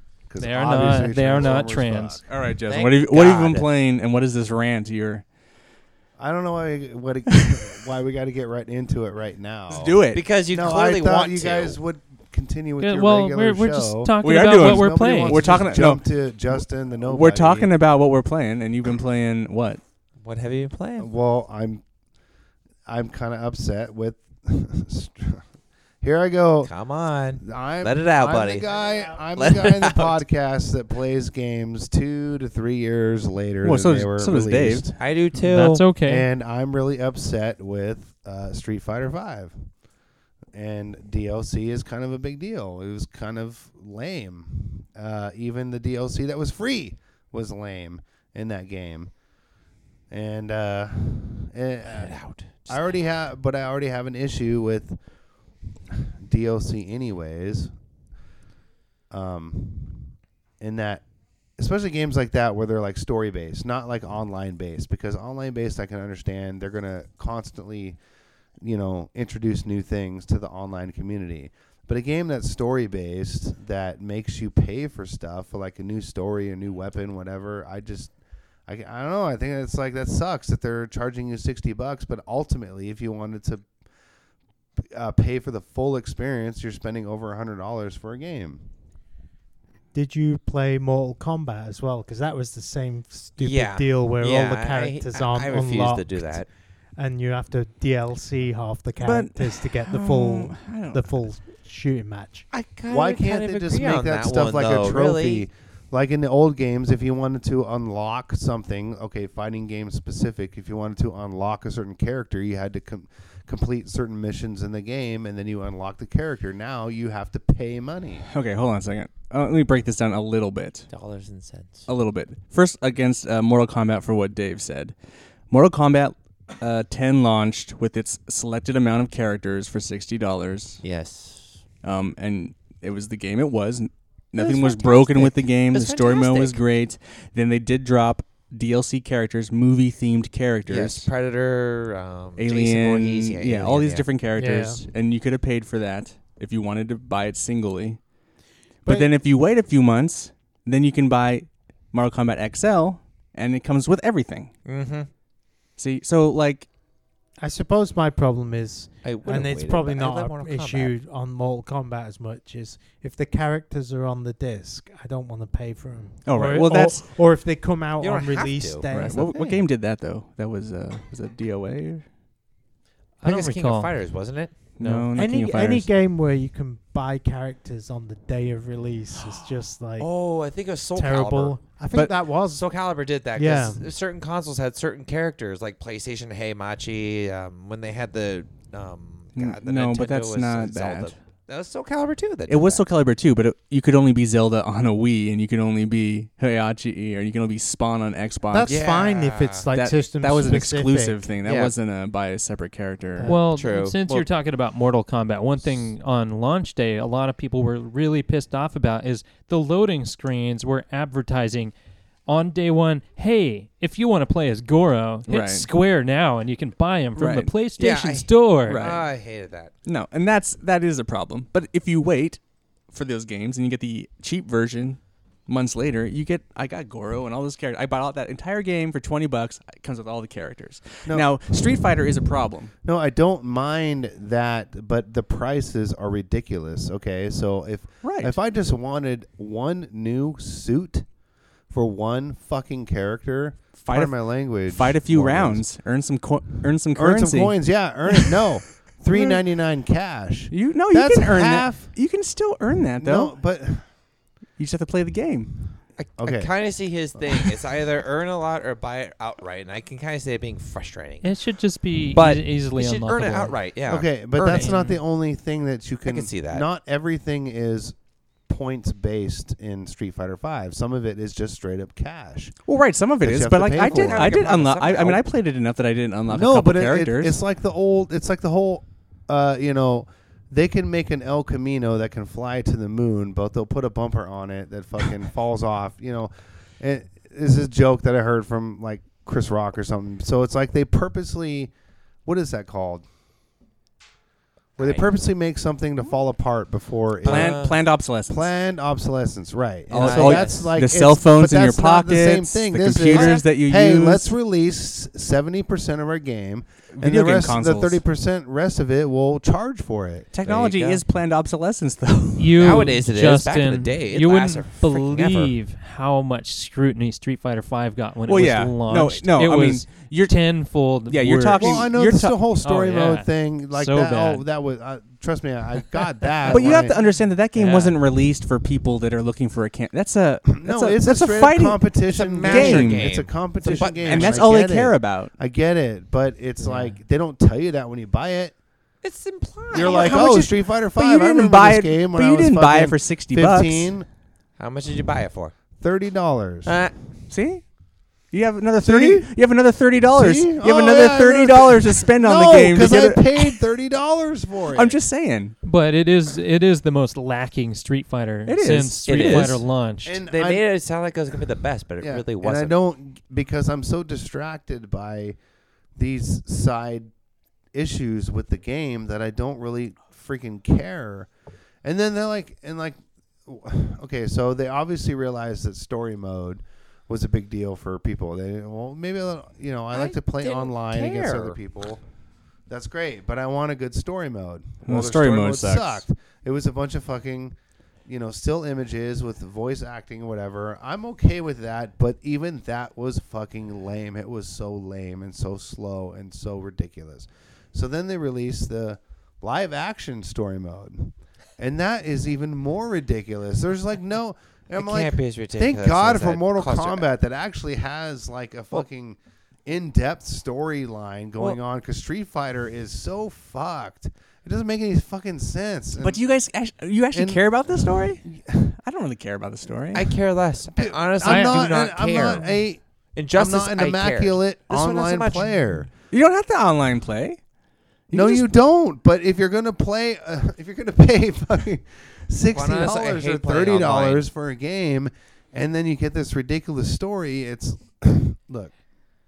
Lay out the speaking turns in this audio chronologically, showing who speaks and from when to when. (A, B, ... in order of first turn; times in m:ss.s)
0:00.3-0:02.2 A
0:00.4-0:02.2 B
0:02.3-0:05.2 C
0:02.7-0:03.7 D
0:06.2-0:17.7 A
0:09.7-0:10.2 C
0:10.1-0:11.8 D
0:12.8-0:15.6 B
0:14.2-0:16.0 C
0:17.1-0:19.8 C
0:20.2-0:21.1 D
0:21.0-0:21.8 A
0:22.8-0:25.4 A
0:26.0-0:26.7 A
0:26.6-0:28.8 D
0:27.4-0:34.9 A
0:29.3-0:30.2 D
0:33.6-0:35.0 C
0:35.0-0:35.9 D
0:35.3-0:36.3 B
0:36.0-0:39.7 A
0:40.5-0:49.1 A
0:50.1-0:52.1 A
0:51.8-0:52.9 D
0:52.7-0:55.0 A
0:55.9-0:57.7 A
0:59.1-1:01.0 A
1:01.6-1:08.0 A
1:08.6-1:18.1 A
1:18.7-1:23.6 A
1:24.8-1:28.6 A
1:29.9-1:36.4 E
1:33.4-1:36.5 D
1:37.0-1:42.5 E
1:39.0-1:41.1 C
1:42.5-1:45.5 D
1:42.9-1:58.3 A
1:58.3-2:00.9 C
2:00.9-2:01.9 D
2:01.9-2:04.9 C
2:05.5-2:10.8 C
2:10.8-2:11.6 D
2:11.8-2:21.1 C
2:14.4-2:16.6 D
2:20.7-2:24.1 D
2:22.4-2:28.0 C
2:24.4-2:24.8 E
2:28.8-2:34.5 C
2:34.6-2:35.1 D
2:35.8-2:36.7 C
2:37.4-2:49.6 E
2:39.0-2:40.9 D
2:46.2-2:47.1 C
2:48.0-2:48.9 D
2:48.9-2:52.0 C
2:53.2-2:53.9 B
2:53.2-2:54.6 D
2:54.8-2:55.9 C
2:54.8-2:55.1 B
2:55.1-3:00.1 E
3:00.0-3:01.6 D
3:01.0-3:02.7 E
3:02.4-3:12.8 D
3:03.3-3:03.8 E
3:09.4-3:11.1 C
3:12.5-3:18.8 C
3:18.5-3:21.3 E
3:18.7-3:19.6 D
3:19.7-3:23.3 C
3:21.4-3:21.7 D
3:23.2-3:23.4 E
3:23.2-3:31.7 B
3:23.5-3:24.0 D
3:32.3-3:38.9 B
3:35.3-3:35.7 C
3:37.2-3:37.5 C
3:37.8-3:39.7 D
3:38.7-3:39.1 C
3:39.8-3:42.4 C
3:42.9-3:52.7 C
3:52.8-4:01.0 A
3:58.0-3:58.3 C
4:01.7-4:05.6 A
4:03.8-4:07.5 C
4:06.9-4:11.9 A
4:09.1-4:09.4 C
4:10.5-4:13.3 C
4:13.0-4:13.8 A
4:14.6-4:15.6 C
4:16.0-4:21.3 D
4:16.2-4:16.5 A
4:21.2-4:23.6 B
4:22.1-4:24.9 D
4:23.9-4:28.0 A
4:24.5-4:25.0 B
4:26.1-4:26.6 D
4:28.5-4:32.5 A
4:32.7-4:37.4 C
4:33.2-4:34.5 A
4:33.8-4:35.2 D
4:36.3-4:51.7 A
4:52.2-4:53.0 A
4:54.8-4:55.1 D
4:54.8-4:57.7 A
4:57.2-4:57.8 D
4:57.2-4:58.5 C
4:58.3-5:10.3 A
4:59.9-5:04.3 C
4:59.9-5:00.7 D
5:03.1-5:03.4 D
5:06.9-5:08.0 C
5:10.3-5:12.9 C
5:10.4-5:11.0 D
5:12.4-5:21.9 B
5:12.6-5:14.8 D
5:14.9-5:15.5 C
5:18.3-5:22.4 C
5:21.6-5:26.9 A
5:22.6-5:24.4 B
5:26.5-5:33.1 C
5:27.6-5:27.9 B
5:30.5-5:38.5 A
5:32.1-5:34.5 D
5:34.0-5:35.3 C
5:36.6-5:36.9 D
5:39.0-5:40.3 D
5:39.7-5:44.1 A
5:39.7-5:43.9 C
5:44.6-5:45.5 D
5:45.8-5:46.7 A
5:46.6-5:47.0 D
5:47.3-5:47.6 C
5:48.3-5:53.6 C
5:48.8-5:49.3 A
5:50.1-5:55.0 A
5:54.7-5:55.5 C
5:55.6-6:00.2 B
5:58.5-5:59.6 C
5:59.0-5:59.6 D
6:00.0-6:00.6 A
6:00.2-6:02.7 D
6:02.0-6:05.4 A
6:06.0-6:07.1 A
6:07.7-6:11.3 A
6:11.8-6:22.0 A
6:19.9-6:21.6 D
6:22.7-6:56.2 A
6:24.8-6:26.0 C
6:44.8-6:47.1 D
6:56.0-7:00.1 C
6:57.1-6:58.7 A
6:59.9-7:02.5 D
7:00.8-7:02.8 A
7:01.2-7:01.6 B
7:03.1-7:05.6 D
7:03.3-7:05.9 A
7:06.1-7:07.4 C
7:08.1-7:08.4 C
7:08.1-7:18.7 A
7:12.5-7:14.3 D